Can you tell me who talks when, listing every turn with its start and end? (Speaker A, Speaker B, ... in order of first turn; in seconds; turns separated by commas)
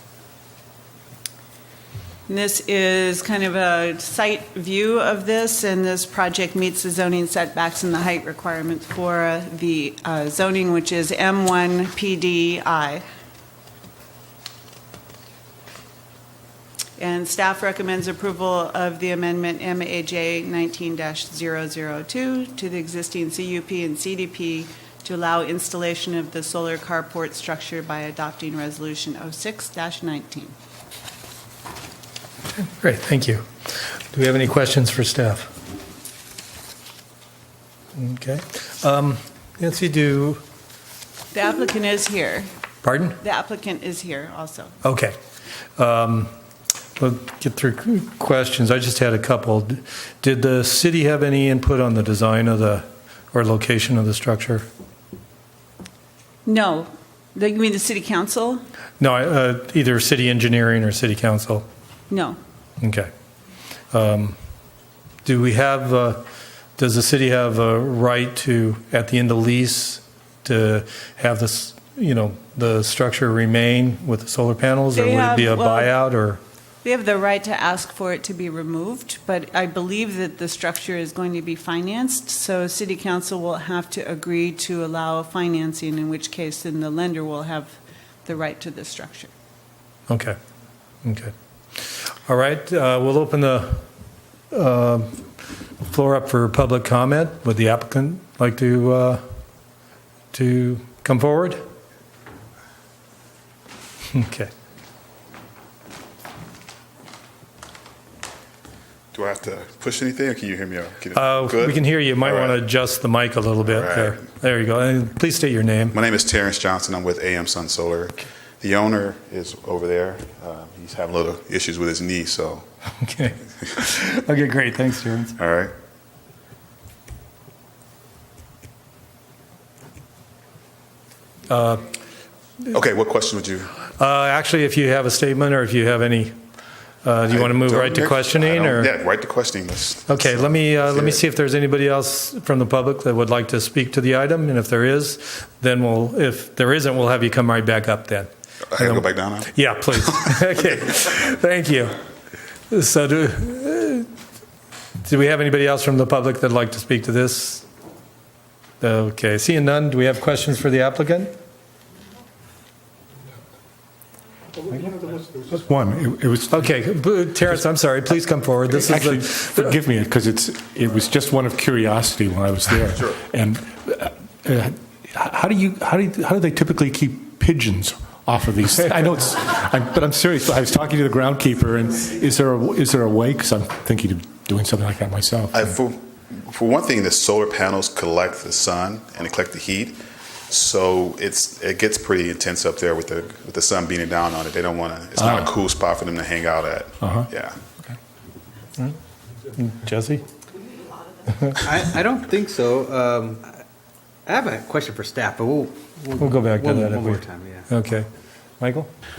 Speaker A: 2.3-13.0, Speaker A: 17.0-30.5, Speaker B: 32.6-33.4, Speaker B: 34.1-35.5, Speaker B: 38.0-40.4, Speaker A: 41.3-42.5, Speaker B: 42.8-43.2, Speaker A: 43.2-44.8, Speaker B: 44.8-45.1, Speaker B: 45.8-46.3, Speaker B: 47.0-54.6, Speaker A: 56.5-58.6, Speaker B: 59.0-61.6, Speaker A: 62.1-62.4, Speaker B: 62.8-63.1, Speaker B: 63.9-64.3, Speaker B: 65.2-66.2, Speaker B: 66.8-76.4, Speaker A: 75.0-76.0, Speaker A: 76.8-89.3, Speaker B: 90.1-90.4, Speaker B: 91.0-91.3, Speaker B: 92.3-93.8, Speaker B: 94.5-95.2, Speaker B: 95.9-99.2, Speaker B: 100.3-101.6, Speaker B: 104.1-104.5, Speaker C: 109.1-112.6, Speaker B: 111.2-116.0, Speaker C: 113.7-114.1, Speaker C: 115.9-122.6, Speaker B: 123.0-125.3, Speaker C: 125.4-125.7, Speaker B: 131.5-131.9, Speaker C: 132.7-133.7, Speaker B: 134.0-136.3, Speaker B: 137.0-138.9, Speaker C: 137.3-141.2, Speaker B: 140.1-152.0, Speaker C: 148.7-149.5, Speaker B: 152.7-154.1, Speaker B: 155.0-157.6, Speaker B: 158.8-161.3, Speaker D: 164.7-167.7, Speaker B: 166.5-169.7, Speaker D: 168.6-185.7, Speaker C: 185.5-190.0, Speaker C: 190.5-197.6, Speaker D: 195.2-195.5, Speaker D: 197.0-197.3, Speaker B: 199.6-200.2, Speaker B: 201.3-201.7, Speaker E: 201.6-203.6, Speaker E: 204.3-207.7, Speaker B: 206.1-208.1, Speaker B: 208.6-208.9